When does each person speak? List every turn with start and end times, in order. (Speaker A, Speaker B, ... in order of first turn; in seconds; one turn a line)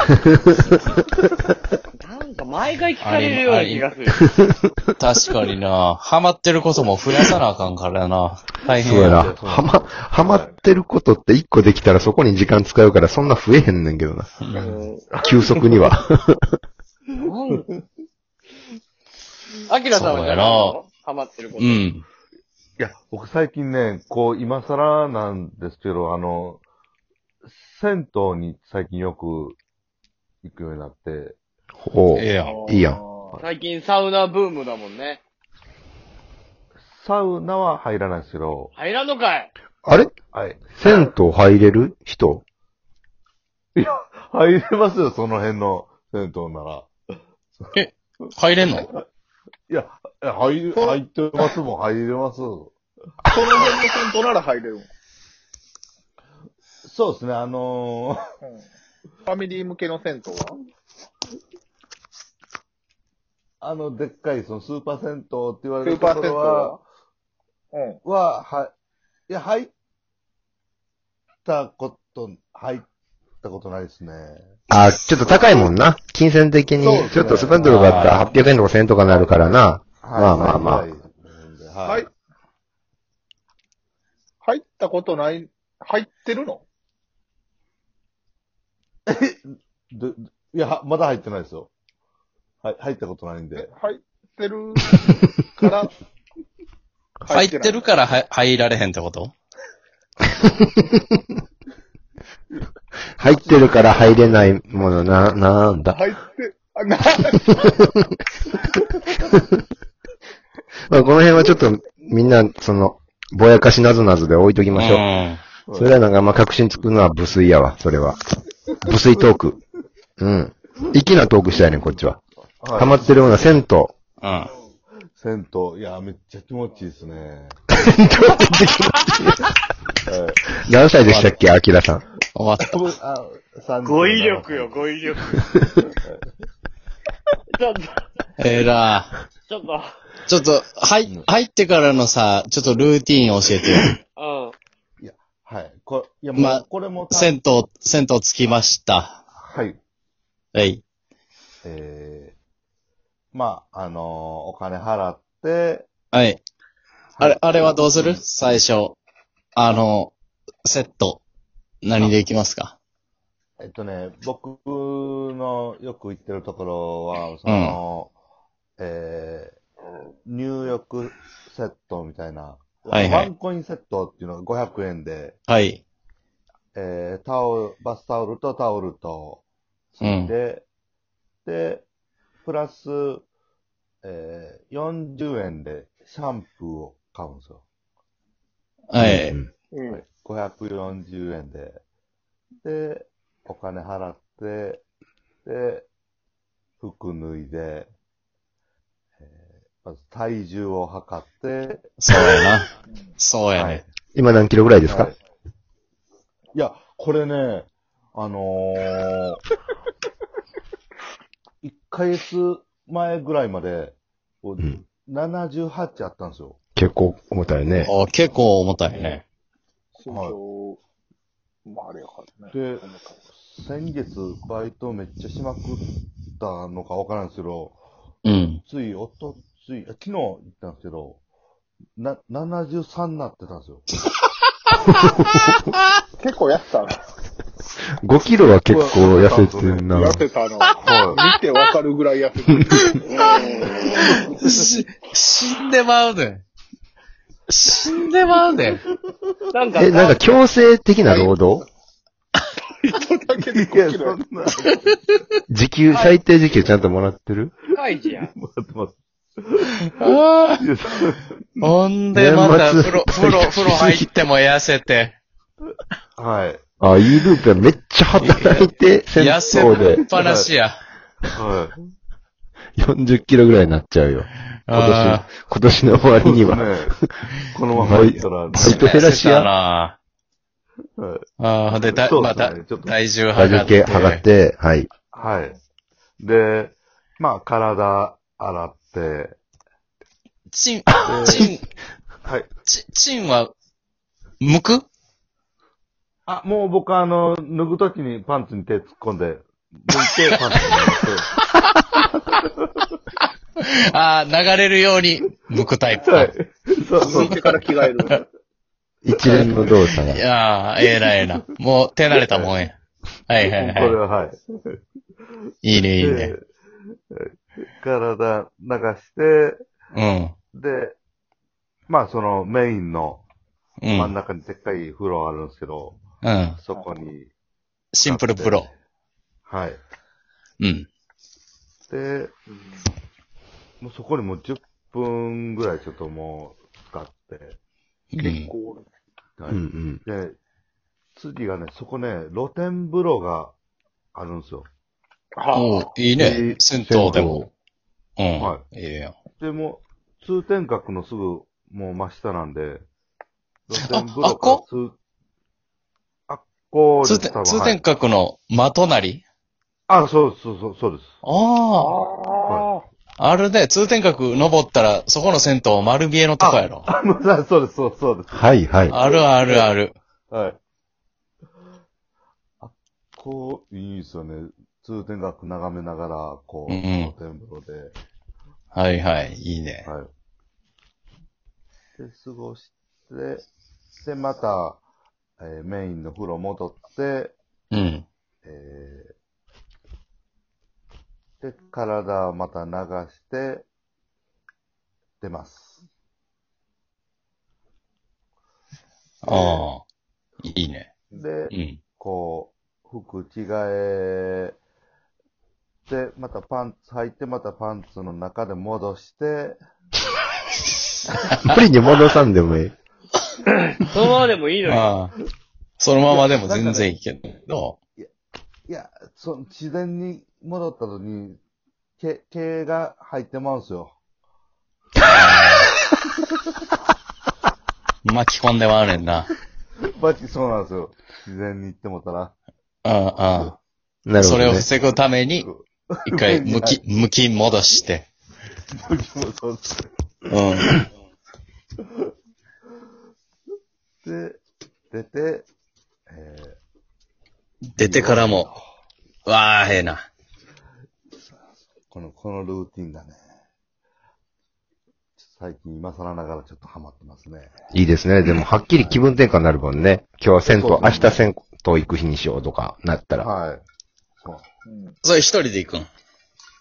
Speaker A: 2.0-4.2
Speaker B: 3.0-3.9
Speaker C: 4.1-4.9
Speaker B: 5.0-9.3
Speaker C: 8.7-14.3
Speaker D: 8.9-10.5
Speaker B: 14.4-14.8
Speaker E: 14.6-15.1
Speaker C: 15.2-16.6
Speaker A: 17.2-17.6
Speaker A: 19.7-21.9
Speaker B: 19.9-20.8
Speaker B: 21.6-22.0
Speaker D: 22.8-26.6
Speaker D: 27.4-29.6
Speaker D: 30.4-31.4
Speaker C: 31.8-33.0
Speaker B: 32.1-32.6
Speaker E: 32.4-33.4
Speaker A: 33.4-35.2
Speaker D: 36.9-38.7
Speaker A: 38.7-39.5
Speaker C: 39.9-40.1
Speaker D: 39.9-40.9
Speaker C: 40.8-42.4
Speaker D: 43.8-46.9
Speaker B: 47.7-48.9
Speaker D: 49.7-52.7
Speaker E: 50.7-51.4
Speaker E: 53.2-54.9
Speaker D: 56.8-58.3
Speaker E: 59.2-60.6
Speaker D: 63.6-66.8
Speaker E: 65.8-66.8
Speaker E: 67.7-68.0
Speaker D: 68.0-68.7
Speaker D: 69.3-69.7
Speaker D: 71.4-72.9
Speaker D: 73.4-74.5
Speaker C: 74.7-80.8
Speaker D: 75.2-75.7
Speaker D: 76.8-78.1
Speaker B: 77.6-78.3
Speaker D: 80.0-82.1
Speaker E: 84.4-86.6
Speaker D: 89.1-91.7
Speaker D: 92.6-93.7
Speaker E: 93.6-95.9
Speaker E: 97.2-97.8
Speaker B: 97.3-99.3
Speaker C: 100.5-101.0
Speaker C: 103.2-106.0
Speaker E: 105.9-107.9
Speaker C: 107.6-108.0
Speaker C: 110.9-115.0
Speaker B: 114.7-115.4
Speaker D: 115.7-116.9
Speaker C: 115.7-118.2
Speaker C: 118.8-119.6
Speaker D: 118.9-119.4
Speaker C: 120.2-122.2
Speaker D: 121.5-121.9
Speaker D: 122.6-123.6
Speaker C: 122.7-123.9
Speaker B: 124.2-124.5
Speaker D: 125.2-127.5
Speaker C: 127.7-129.5
Speaker D: 130.0-130.4
Speaker C: 130.6-132.0
Speaker B: 131.0-131.4
Speaker B: 132.3-132.8
Speaker D: 132.6-134.8
Speaker A: 133.8-135.3
Speaker D: 135.9-136.2
Speaker A: 137.5-138.0
Speaker B: 138.4-139.2
Speaker A: 139.5-140.0
Speaker B: 140.2-143.9
Speaker A: 144.2-144.6
Speaker D: 145.0-147.4
Speaker B: 146.3-149.2
Speaker D: 149.3-149.8
Speaker B: 150.5-150.8
Speaker D: 151.6-152.3
Speaker D: 153.3-155.9
Speaker B: 156.1-156.4
Speaker D: 157.2-158.2
Speaker B: 157.2-159.0
Speaker B: 159.5-160.1
Speaker B: 160.6-161.2
Speaker B: 161.8-162.8
Speaker D: 163.6-168.1
Speaker B: 167.4-167.8
Speaker D: 168.8-169.6
Speaker D: 170.2-175.3
Speaker B: 172.9-173.3
Speaker B: 175.5-175.8
Speaker D: 176.7-180.6
Speaker B: 180.0-180.3
Speaker D: 181.4-181.8
Speaker D: 182.4-183.2
Speaker D: 184.0-187.6
Speaker B: 188.9-189.4
Speaker C: 189.0-189.5
Speaker E: 189.7-190.0
Speaker D: 189.9-191.8
Speaker D: 192.6-194.8
Speaker D: 195.4-195.9
Speaker D: 196.8-197.9
Speaker D: 199.2-201.9
Speaker B: 202.0-202.7
Speaker B: 203.2-203.8
Speaker D: 203.5-203.8
Speaker C: 204.1-205.1
Speaker D: 204.9-205.2
Speaker D: 206.5-209.4
Speaker D: 211.6-216.6
Speaker C: 216.8-217.9
Speaker B: 217.8-219.2
Speaker E: 219.9-220.8
Speaker D: 220.1-220.4
Speaker E: 221.7-223.2
Speaker D: 222.5-225.8
Speaker D: 226.3-227.8
Speaker B: 228.2-228.6
Speaker D: 228.6-231.2
Speaker D: 232.0-233.8
Speaker C: 235.0-235.6
Speaker E: 236.2-237.0
Speaker C: 238.0-240.2
Speaker D: 238.7-239.9
Speaker E: 239.9-244.2
Speaker D: 240.8-241.2
Speaker B: 243.9-246.4
Speaker B: 247.5-248.8
Speaker A: 249.5-250.3
Speaker C: 249.7-251.7
Speaker E: 251.0-251.3
Speaker E: 252.6-254.2
Speaker D: 253.4-254.9
Speaker C: 255.5-257.5
Speaker A: 255.9-256.2
Speaker A: 257.7-258.3
Speaker D: 258.0-261.6
Speaker B: 259.9-260.6
Speaker B: 261.6-265.2
Speaker C: 262.1-264.1
Speaker D: 266.2-267.1
Speaker C: 266.8-270.0
Speaker B: 268.2-270.8
Speaker D: 269.6-270.5
Speaker D: 271.3-271.8
Speaker C: 272.8-279.5
Speaker B: 274.7-275.3
Speaker D: 276.2-276.9
Speaker D: 277.5-278.9
Speaker B: 278.5-280.0
Speaker D: 281.0-282.9
Speaker B: 281.4-284.2
Speaker C: 283.3-284.9
Speaker D: 285.1-285.6
Speaker D: 286.2-289.4
Speaker B: 290.5-291.6
Speaker C: 291.0-291.5
Speaker D: 291.0-291.5
Speaker B: 292.7-293.5
Speaker B: 294.4-294.9
Speaker D: 296.3-301.3
Speaker D: 302.3-302.9
Speaker B: 303.6-306.3
Speaker D: 306.1-307.6
Speaker E: 307.0-308.2
Speaker B: 307.0-307.4
Speaker C: 309.0-310.2
Speaker D: 309.2-309.7
Speaker B: 309.2-312.8
Speaker D: 312.1-312.6
Speaker B: 313.3-314.0
Speaker D: 313.4-314.6
Speaker B: 315.6-316.3
Speaker D: 315.7-316.4
Speaker D: 317.1-319.6
Speaker B: 319.9-320.3
Speaker D: 320.5-320.9
Speaker D: 321.9-323.2
Speaker B: 323.8-324.1
Speaker D: 323.9-326.0
Speaker B: 326.2-326.6
Speaker D: 326.6-327.3
Speaker B: 327.9-328.7
Speaker D: 328.0-328.7
Speaker D: 329.4-329.8
Speaker B: 330.6-330.9
Speaker D: 331.9-332.3
Speaker E: 332.5-332.9
Speaker D: 333.8-337.6
Speaker B: 338.1-338.5
Speaker E: 338.1-338.9
Speaker D: 339.4-340.4
Speaker C: 339.5-340.0
Speaker D: 341.1-343.5
Speaker D: 344.1-344.7
Speaker E: 345.4-345.9
Speaker B: 345.5-347.5
Speaker D: 346.2-347.4
Speaker C: 346.9-347.4
Speaker B: 348.2-349.1
Speaker D: 348.4-348.6
Speaker D: 349.4-352.8
Speaker D: 353.7-354.9
Speaker B: 353.9-354.6
Speaker D: 356.3-357.8
Speaker B: 357.0-359.2
Speaker D: 359.9-361.2
Speaker B: 361.2-362.0
Speaker E: 361.8-362.8
Speaker D: 362.4-362.7
Speaker B: 363.2-366.9
Speaker D: 366.4-369.6
Speaker C: 368.3-368.9
Speaker B: 368.9-369.9
Speaker D: 370.3-370.6
Speaker D: 372.6-377.9
Speaker B: 376.7-377.1
Speaker B: 378.7-379.9
Speaker D: 379.8-380.1
Speaker D: 382.0-383.4
Speaker D: 384.0-384.8
Speaker D: 385.4-387.3
Speaker B: 387.7-388.1
Speaker D: 388.4-389.1
Speaker D: 391.4-393.6
Speaker D: 395.2-395.8
Speaker B: 399.2-399.8
Speaker D: 399.2-399.7
Speaker B: 400.4-400.9
Speaker D: 401.1-404.6
Speaker B: 401.5-401.8
Speaker D: 405.9-409.6
Speaker C: 411.4-412.7
Speaker A: 413.5-414.9
Speaker B: 414.6-415.1
Speaker B: 415.8-417.8
Speaker D: 416.1-416.9
Speaker D: 418.7-421.4
Speaker D: 422.0-423.9
Speaker B: 425.1-425.7
Speaker B: 428.0-429.3
Speaker D: 429.8-432.3
Speaker B: 432.8-433.6
Speaker C: 434.1-434.6
Speaker B: 434.2-435.5
Speaker D: 435.4-436.8
Speaker B: 436.1-438.1
Speaker D: 438.7-439.9
Speaker B: 440.3-440.7
Speaker D: 444.0-445.5
Speaker D: 446.1-446.6
Speaker B: 447.7-448.5
Speaker D: 447.8-448.6
Speaker B: 449.2-450.0
Speaker D: 451.9-453.2
Speaker D: 455.2-457.5
Speaker C: 457.7-463.3
Speaker D: 460.5-461.3
Speaker D: 463.2-463.6
Speaker D: 464.2-464.5
Speaker E: 464.6-464.9
Speaker B: 465.0-465.9